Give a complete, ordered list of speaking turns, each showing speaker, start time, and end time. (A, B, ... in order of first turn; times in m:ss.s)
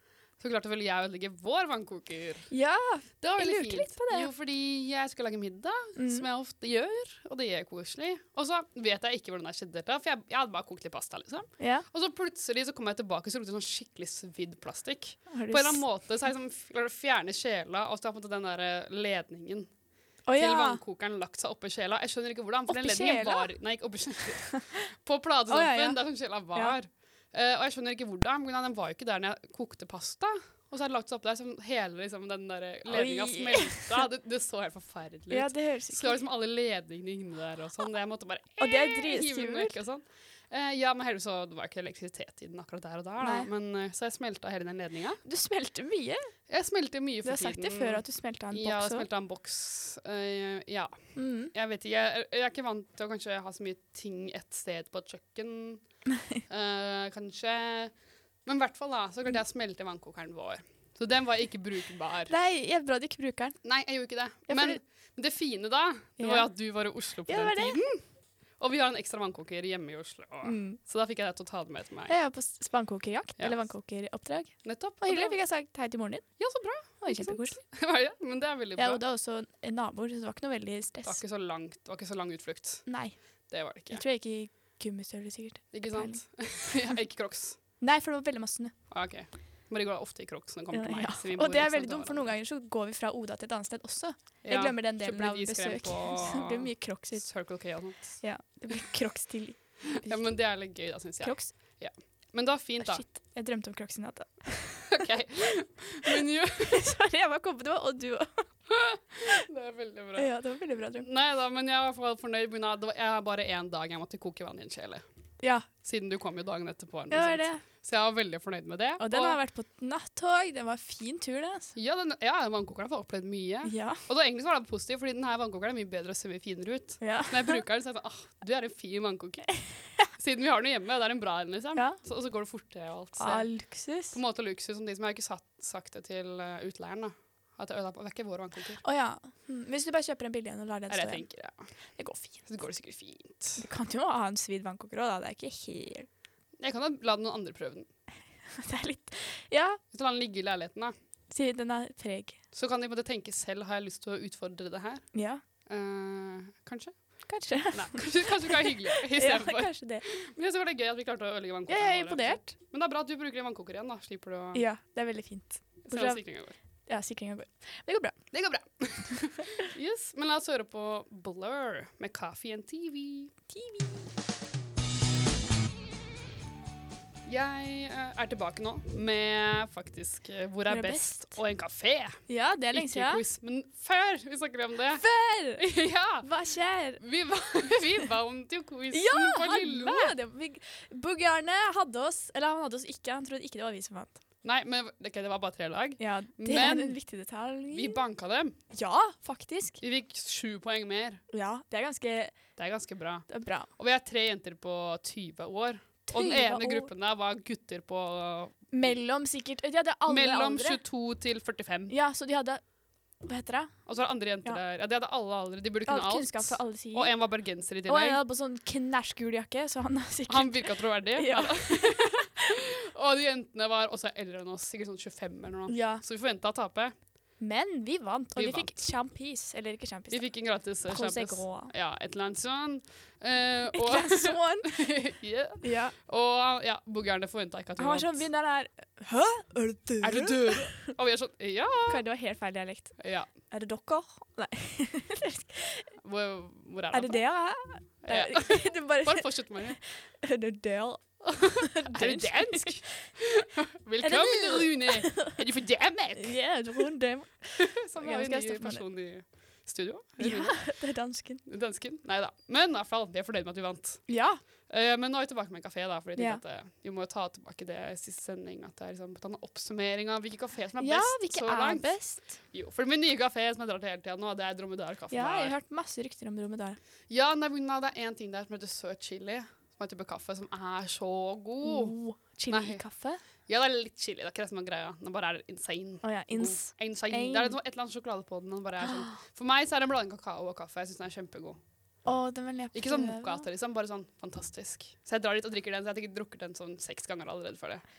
0:00.4-0:02.5 A
0:02.5-0:04.3 B
0:03.2-0:19.7 A
0:06.0-0:06.2 B
0:11.6-0:11.8 B
0:15.3-0:15.8 B
0:20.2-0:20.8 B
0:20.4-0:45.2 A
0:22.7-0:23.5 B
0:25.5-0:26.0 B
0:32.9-0:34.0 B
0:35.3-0:36.2 B
0:38.6-0:39.8 B
0:43.2-0:43.5 B
0:45.2-0:46.3 B
0:46.5-0:55.8 A
0:47.2-0:49.0 B
0:51.1-0:51.5 B
0:56.5-0:57.9 A
0:58.4-1:02.3 A
1:02.3-1:03.6 B
1:03.6-1:08.0 A
1:04.5-1:04.8 B
1:06.2-1:06.5 B
1:07.3-1:07.8 B
1:08.6-1:12.1 A
1:10.4-1:10.8 B
1:12.1-1:17.6 B
1:13.4-1:13.6 A
1:14.6-1:15.4 A
1:16.4-1:19.0 A
1:18.8-1:21.2 B
1:21.0-1:22.9 A
1:22.8-1:26.8 B
1:23.5-1:24.0 A
1:25.7-1:27.6 A
1:27.8-1:28.7 B
1:28.9-1:32.3 A
1:30.7-1:37.5 B
1:34.4-1:38.2 A
1:38.2-1:40.3 B
1:40.0-1:43.0 A
1:41.2-1:41.5 B
1:42.8-1:45.0 B
1:44.9-1:46.8 A
1:46.0-1:48.5 B
1:48.7-1:50.3 A
1:50.2-1:51.1 B
1:51.0-1:55.0 A
1:55.4-1:55.7 B
1:55.8-1:59.4 A
1:57.1-1:57.6 B
1:59.0-2:01.7 B
2:01.7-2:18.8 A
2:03.6-2:04.0 B
2:07.0-2:07.6 B
2:13.2-2:14.2 B
2:18.8-2:21.3 B
2:20.9-2:21.6 A
2:22.0-2:22.4 B
2:22.4-2:23.6 A
2:23.6-2:26.1 B
2:26.6-2:27.9 A
2:28.6-2:29.8 B
2:29.9-2:30.9 A
2:31.3-2:32.4 B
2:32.5-2:35.1 A
2:35.1-2:35.4 B
2:35.6-2:44.6 A
2:37.3-2:40.0 B
2:41.7-2:42.5 B
2:44.5-2:46.2 B
2:45.8-2:46.5 A
2:46.8-2:48.2 B
2:48.3-2:53.3 A
2:53.5-2:54.0 B
2:57.2-3:02.2 A
3:00.7-3:01.4 B
3:02.3-3:03.2 B
3:02.7-3:05.0 A
3:04.9-3:05.7 B
3:05.6-3:06.3 A
3:06.2-3:07.0 B
3:07.0-3:10.2 A
3:08.9-3:14.2 B
3:14.4-3:17.0 A
3:16.0-3:18.0 B
3:17.7-3:18.6 A
3:18.7-3:19.8 B
3:19.8-3:21.2 A
3:21.3-3:22.4 B
3:22.6-3:28.9 A
3:23.3-3:23.7 B
3:26.1-3:26.9 B
3:28.7-3:30.8 B
3:30.1-3:31.9 A
3:31.9-3:32.6 B
3:33.2-3:33.9 B
3:33.8-3:38.2 A
3:35.9-3:37.2 B
3:37.8-3:42.4 B
3:40.3-3:46.9 A
3:45.7-3:46.0 B
3:47.4-3:51.7 B
3:48.4-3:48.8 A
3:50.1-3:58.2 A
3:53.7-3:55.0 B
3:55.6-3:55.9 B
3:57.8-4:00.9 B
4:00.0-4:02.0 A
4:01.9-4:05.9 B
4:03.0-4:03.3 A
4:06.0-4:07.2 A
4:06.9-4:13.1 B
4:08.0-4:09.8 A
4:11.3-4:16.4 A
4:14.0-4:15.4 B
4:16.1-4:18.8 B
4:17.6-4:20.7 A
4:20.2-4:21.4 B
4:21.4-4:24.1 A
4:24.1-4:24.4 B
4:24.7-4:35.5 A
4:26.2-4:26.4 B
4:30.8-4:32.4 B
4:35.1-4:36.8 B
4:37.1-4:41.9 A
4:41.6-4:43.2 B
4:42.5-4:42.8 A
4:43.4-4:51.6 A
4:46.0-4:47.6 B
4:48.8-4:49.2 B
4:52.0-4:53.4 B
4:52.7-4:57.8 A